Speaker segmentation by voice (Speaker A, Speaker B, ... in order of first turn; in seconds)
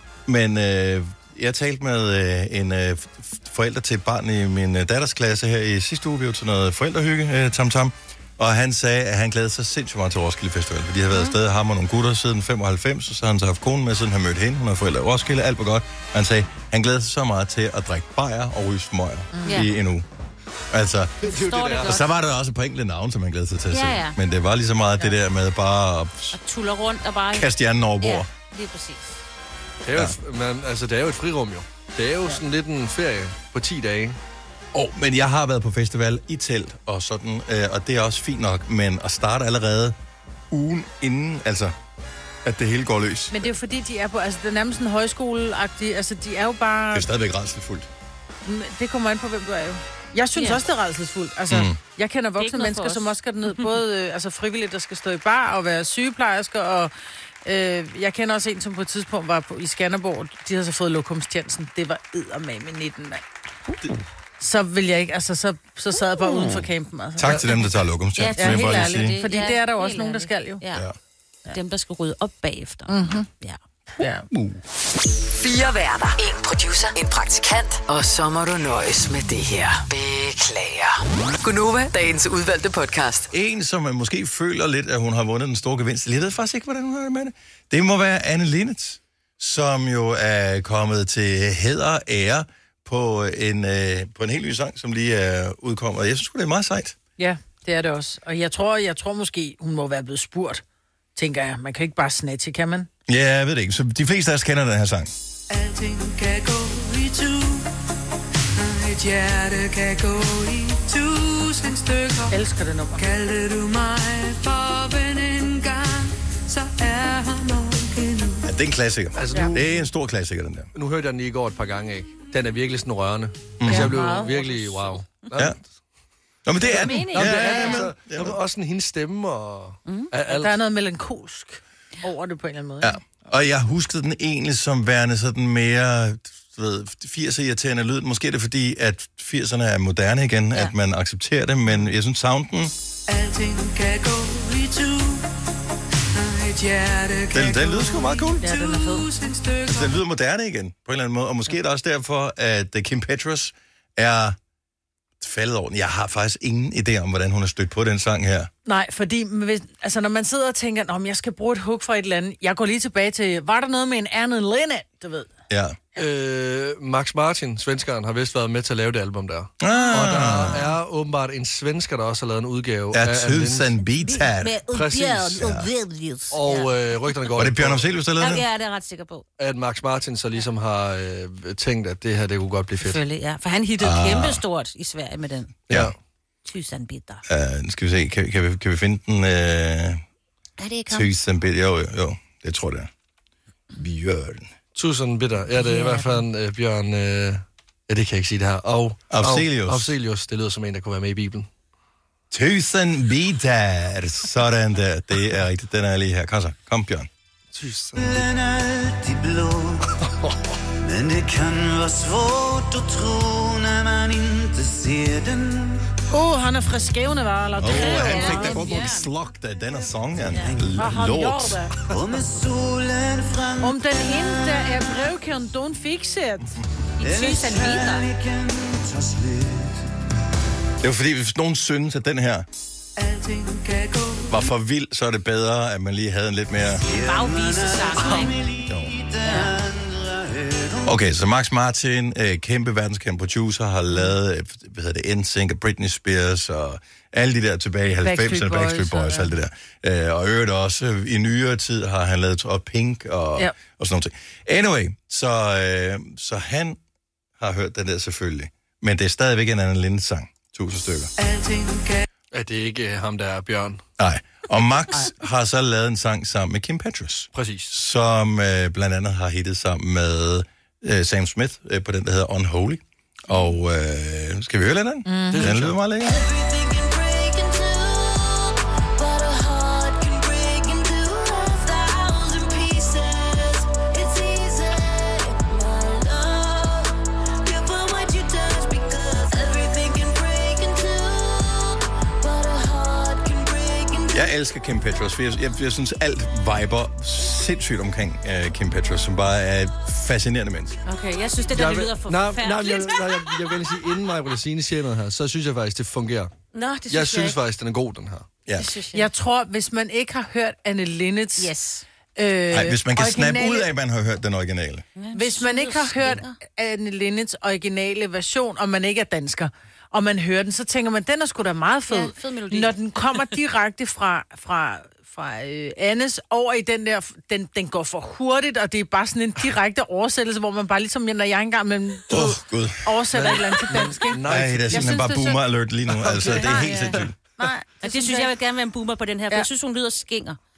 Speaker A: 0.3-20.1, 20.7-26.4, 27.3-28.3, 34.7-40.0, 40.5-41.7, 42.4-43.5, 46.9-47.9, 51.5-51.8, 66.2-66.7, 67.2-69.2, 74.0-74.6, 83.3-97.0, 103.1-105.1, 118.4-120.7, 123.6-123.9, 126.5-128.4, 132.8-142.7, 147.3-148.7, 149.6-154.4, 155.2-158.5, 165.5-165.8, 169.6-170.6, 172.9-174.6, 175.3-175.7, 177.3-178.4, 183.8-184.4, 187.3-190.0, 190.9-192.9, 193.7-194.5, 199.1-199.9, 202.3-207.1, 217.6-221.6, 230.8-232.4, 234.2-236.8, 238.6-239.0, 240.8-256.8, 257.4-261.1, 264.0-276.2, 294.1-300.8, 308.5-308.7, 312.5-314.9, 332.1-333.0, 334.2-337.1
Speaker B: 19.3-19.7, 43.3-47.1, 48.4-56.9, 57.4-63.2, 64.4-67.3, 68.4-70.6, 72.9-73.3, 74.0-74.2, 97.2-100.6, 101.2-102.9, 112.3-113.1, 123.7-124.9, 130.2-133.0, 148.4-149.1, 158.7-165.3, 216.1-218.6, 220.7-221.7, 223.6-226.6, 248.0-249.3, 261.2-262.0, 275.1-275.5, 308.9-311.5, 312.2-313.7, 315.1-335.4, 336.3-338.3
Speaker C: 19.4-19.7, 21.2-22.1, 23.7-24.2, 26.3-27.5, 28.0-29.2, 50.3-50.6, 52.4-53.7, 68.2-70.8, 71.5-73.6, 126.6-127.9, 169.7-170.7, 174.0-176.7, 178.2-179.2, 182.8-185.6, 186.5-187.2, 190.6-191.1, 195.5-196.2, 217.7-219.1, 227.0-228.1, 236.8-238.4, 276.1-294.1, 300.9-303.5, 306.5-307.4, 308.6-309.1, 311.4-311.8, 314.9-316.4, 321.9-322.7, 337.8-340.4
Speaker D: 21.2-22.0, 29.8-34.2, 67.2-67.5, 111.3-111.8, 116.5-117.1, 119.1-119.7, 120.7-125.6, 126.8-130.6, 165.9-173.7, 174.7-175.4, 176.3-177.9, 179.4-183.0, 194.7-201.5, 207.5-208.3, 262.3-263.8, 267.3-267.7, 275.3-275.8, 301.5-306.3, 306.9-308.3, 333.1-335.0, 335.9-337.1
Speaker E: 75.4-83.3
Speaker F: 105.5-107.7, 108.6-112.2, 113.2-118.4, 143.1-145.2, 146.1-149.6, 233.0-234.2
Speaker G: 208.2-209.8, 210.8-215.8, 220.4-220.8, 221.9-224.6, 227.0-229.8, 236.8-240.8